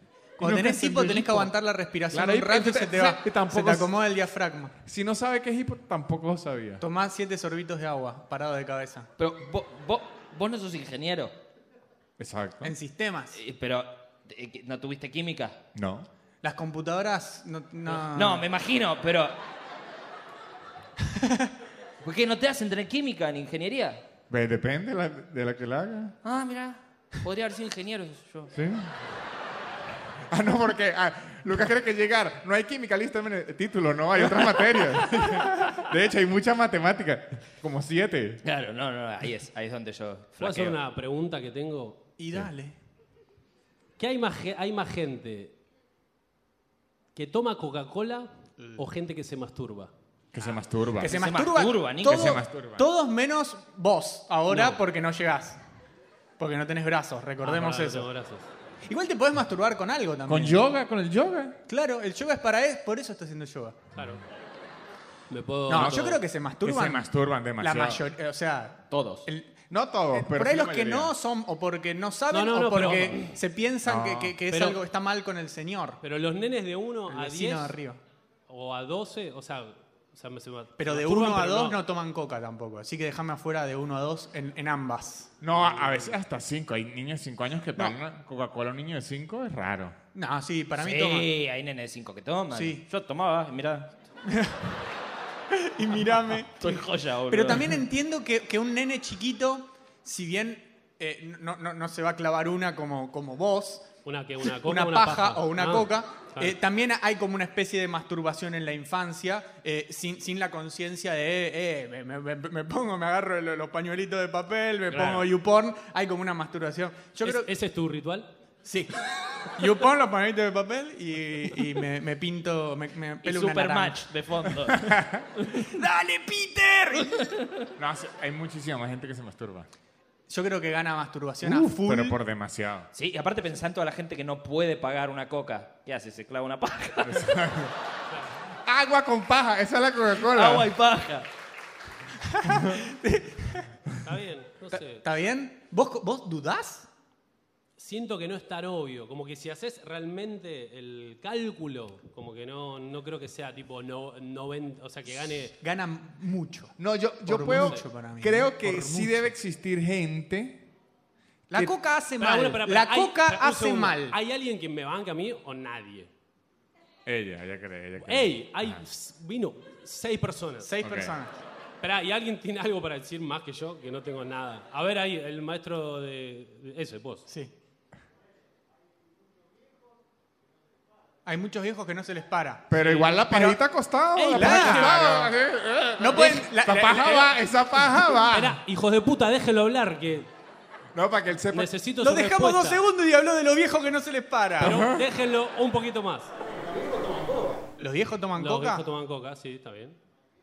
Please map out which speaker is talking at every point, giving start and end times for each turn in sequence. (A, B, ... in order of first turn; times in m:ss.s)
0:00.4-0:04.8 A
0:00.4-0:01.5 B
0:02.1-0:03.9 B
0:04.8-0:06.8 B
0:06.8-0:09.1 A
0:09.2-0:11.3 C
0:12.2-0:12.7 B
0:12.6-0:13.4 A
0:13.3-0:15.6 C
0:15.8-0:16.1 B
0:16.4-0:18.4 A
0:17.9-0:19.4 C
0:21.1-0:21.5 A
0:22.0-0:24.0 C
0:24.3-0:26.2 B
0:26.2-0:28.5 C
0:28.5-0:28.9 B
0:30.3-0:38.4 B
0:34.3-0:35.0 C
0:38.4-0:40.8 C
0:40.4-0:42.0 D
0:42.2-0:42.8 A
0:44.0-0:45.5 D
0:47.2-0:49.9 D
0:50.3-0:51.2 B
0:51.0-0:55.6 A
0:51.0-0:52.4 C
0:52.0-0:52.9 B
0:54.5-0:54.8 D
0:56.4-0:58.1 A
0:57.4-0:58.5 D
0:58.9-1:00.6 A
1:00.3-1:01.6 B
1:01.7-1:03.8 A
1:04.0-1:04.2 D
1:05.3-1:06.2 D
1:05.7-1:09.6 A
1:05.7-1:08.0 B
1:08.9-1:09.3 C
1:09.7-1:11.2 B
1:10.1-1:16.0 A
1:12.3-1:13.3 D
1:13.8-1:14.7 B
1:16.0-1:17.8 D
1:17.1-1:18.0 A
1:18.5-1:21.8 D
1:20.8-1:25.3 A
1:25.4-1:30.0 B
1:25.6-1:26.1 D
1:30.1-1:31.3 A
1:30.8-1:33.9 C
1:32.5-1:32.8 A
1:34.3-1:34.7 A
1:35.5-1:43.9 A
1:36.6-1:37.8 C
1:44.0-1:46.6 D
1:44.4-1:57.5 A
1:54.9-1:55.2 D
1:57.2-1:58.3 D
1:58.6-1:59.0 A
1:59.6-2:04.0 A
2:03.2-2:05.7 C
2:04.8-2:05.2 B
2:05.5-2:07.3 A
2:07.0-2:07.5 C
2:07.8-2:09.7 B
2:10.3-2:12.2 A
2:11.4-2:12.9 B
2:12.9-2:17.5 C
2:17.0-2:17.7 B
2:18.6-2:20.7 B
2:20.3-2:21.3 C
2:22.3-2:23.7 A
2:24.0-2:25.0 D
2:24.7-2:26.9 A
2:27.8-2:35.5 D
2:35.4-2:39.3 A
2:36.8-2:40.6 B
2:37.6-2:37.8 D
2:41.5-2:44.2 A
2:42.2-2:46.1 D
2:47.1-2:48.8 B
2:48.0-2:50.7 D
2:50.6-2:51.4 A
2:50.8-2:51.2 B
2:51.8-2:57.3 D
2:57.3-2:57.5 A
3:01.2-3:03.6 A
3:02.7-3:08.6 B
3:02.7-3:03.2 D
3:04.2-3:05.1 D
3:04.3-3:05.3 A
3:06.0-3:07.4 A
3:08.3-3:10.3 D
3:10.9-3:11.7 B
3:11.5-3:12.8 D
3:12.0-3:14.9 A
3:14.6-3:15.1 B
3:14.6-3:16.3 D
3:17.8-3:18.8 A
3:18.4-3:20.0 D